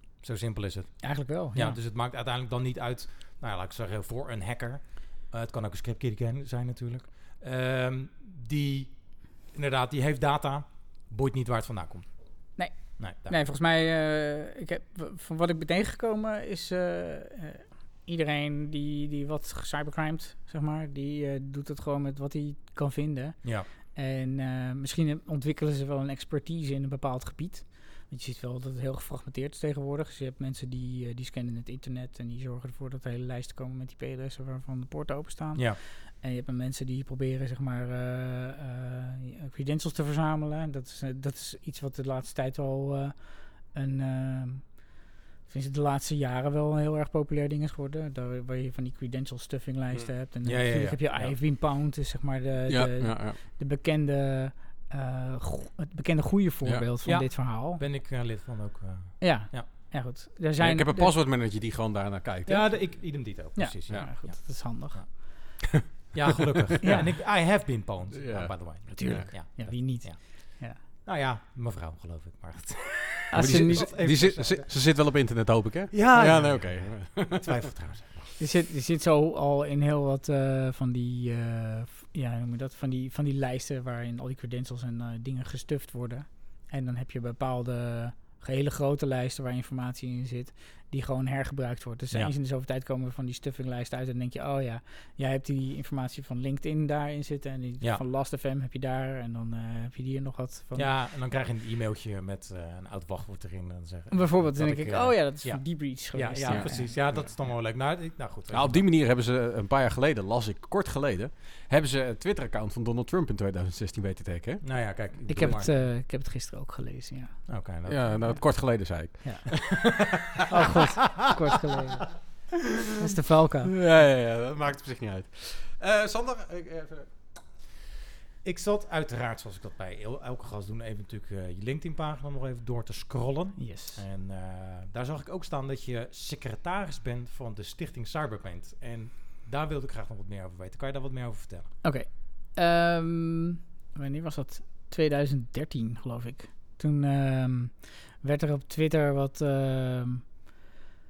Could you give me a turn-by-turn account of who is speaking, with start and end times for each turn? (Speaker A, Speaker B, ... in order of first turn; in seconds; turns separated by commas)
Speaker A: 0.2-13.4, Speaker B: 1.0-1.8, Speaker B: 12.6-57.8, Speaker A: 35.5-35.8, Speaker A: 50.4-51.4, Speaker C: 52.7-53.4, Speaker A: 57.0-59.7, Speaker B: 59.2-61.1, Speaker C: 60.6-63.2, Speaker A: 62.5-75.2, Speaker B: 63.5-65.3, Speaker B: 66.8-67.1, Speaker C: 66.9-67.2, Speaker C: 68.2-69.3, Speaker B: 68.9-70.8, Speaker B: 73.3-74.3, Speaker C: 73.4-77.6, Speaker A: 75.9-78.4, Speaker B: 78.4-101.0, Speaker A: 100.7-108.9, Speaker B: 104.1-107.0, Speaker C: 106.5-107.3, Speaker C: 108.5-115.6, Speaker A: 114.6-115.7, Speaker B: 115.3-117.6, Speaker A: 117.5-118.6, Speaker C: 117.9-119.9, Speaker B: 119.2-120.0, Speaker B: 120.5-122.3, Speaker B: 123.0-123.7, Speaker C: 123.7-127.4, Speaker A: 128.4-141.7, Speaker B: 133.6-134.1, Speaker B: 141.8-150.2